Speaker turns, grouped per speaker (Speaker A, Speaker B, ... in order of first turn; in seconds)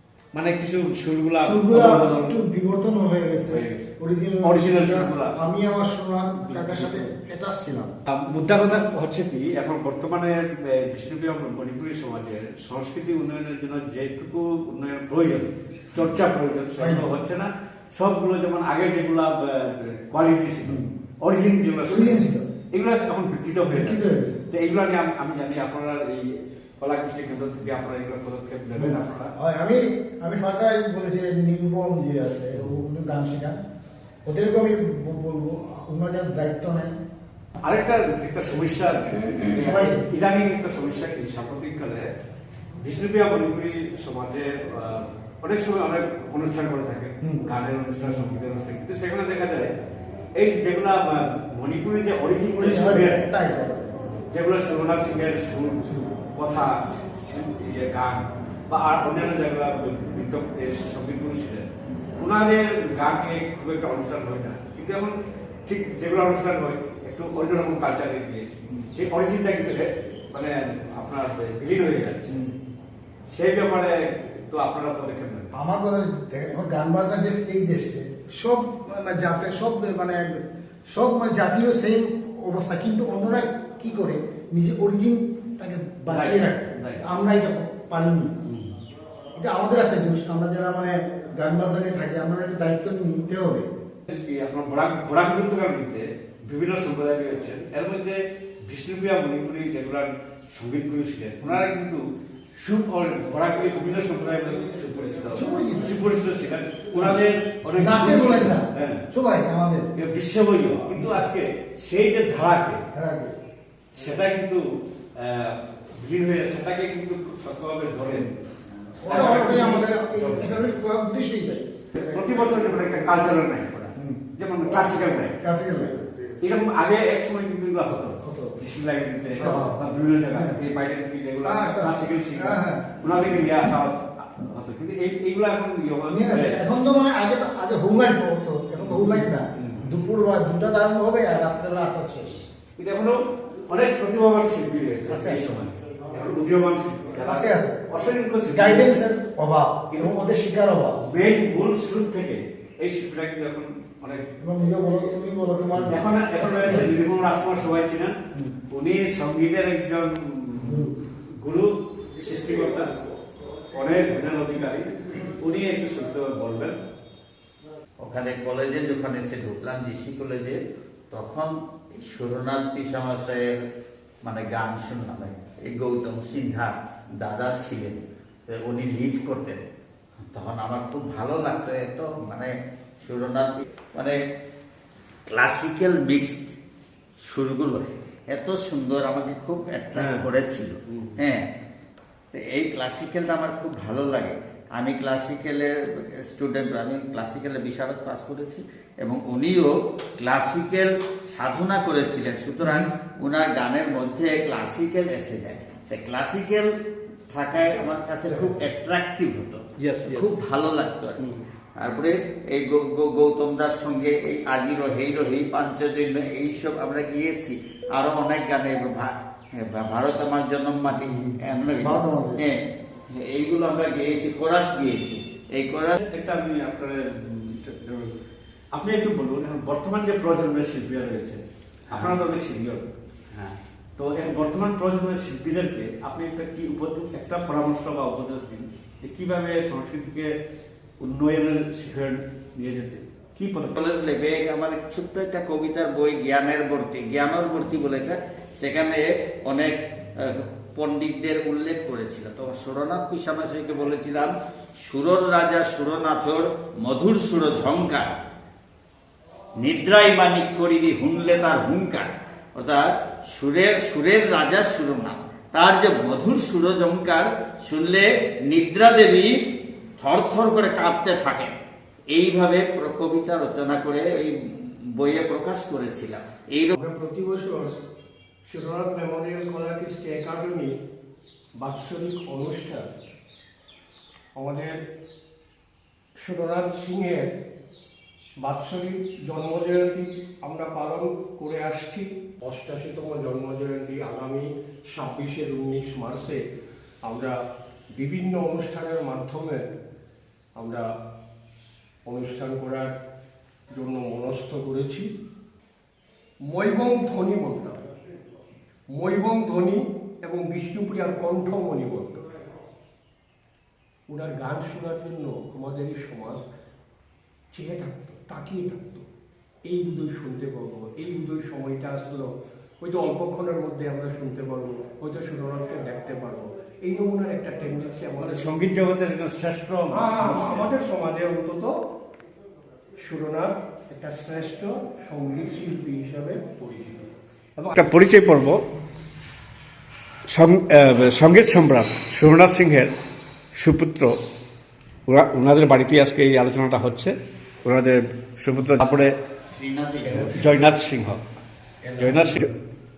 Speaker A: 0.3-2.4, 3.5-3.9, 4.4-5.3, 6.5-7.1, 8.1-29.3, 37.6-42.1, 42.8-49.7, 50.4-53.2, 54.3-65.1, 65.7-72.4, 73.3-75.5, 86.1-87.0, 88.4-88.7, 94.1-102.0, 102.6-109.0, 110.0-112.8, 113.9-114.6, 115.2-118.4, 119.1-120.7, 122.0-125.4, 126.4-136.7, 138.8-139.9, 142.8-149.0, 151.1-154.3, 155.8-158.2, 158.7-162.9, 163.7-166.8, 189.9-190.3, 209.8-210.4, 226.0-228.1, 228.7-240.3, 241.0-243.8, 328.3-330.7, 337.6-338.6, 340.3-342.9, 343.6-344.2, 345.1-349.1, 350.1-351.2, 352.0-352.5
Speaker B: 1.4-7.9, 16.8-17.1, 20.6-20.9, 21.9-22.5, 23.7-24.4, 28.8-33.6, 34.3-37.0, 39.1-40.1, 48.0-48.3, 52.6-53.9, 72.3-72.5, 75.5-88.4, 89.4-93.7, 105.3-106.1, 106.9-107.2, 107.8-109.9, 112.9-113.3, 119.0-122.0, 124.0-124.2, 125.4-126.0, 128.2-128.6, 129.3-129.8, 130.3-130.6, 131.4-132.9, 136.1-142.5, 145.1-145.5, 147.2-147.8, 148.4-151.0, 154.4-156.9, 160.6-161.0, 221.8-222.4
Speaker C: 168.0-170.6, 171.1-173.4, 174.2-179.6, 180.3-184.2, 185.3-186.5, 187.2-191.4, 192.3-195.7, 196.2-206.7, 207.3-222.6, 223.1-226.0, 231.9-232.2, 243.8-254.3, 254.8-258.1, 259.6-269.3, 270.0-271.5, 272.1-276.8, 349.5-350.3
Speaker D: 276.8-277.7, 278.5-280.7, 281.6-282.9, 284.4-284.8, 286.2-287.3, 288.4-296.4, 297.0-297.4, 297.9-299.7, 300.6-300.9, 302.1-302.9, 303.7-305.1, 306.4-307.9, 308.9-312.3, 314.1-316.4, 317.5-319.1, 319.7-328.5, 329.9-331.8, 333.0-337.1, 350.1-350.7, 351.8-352.5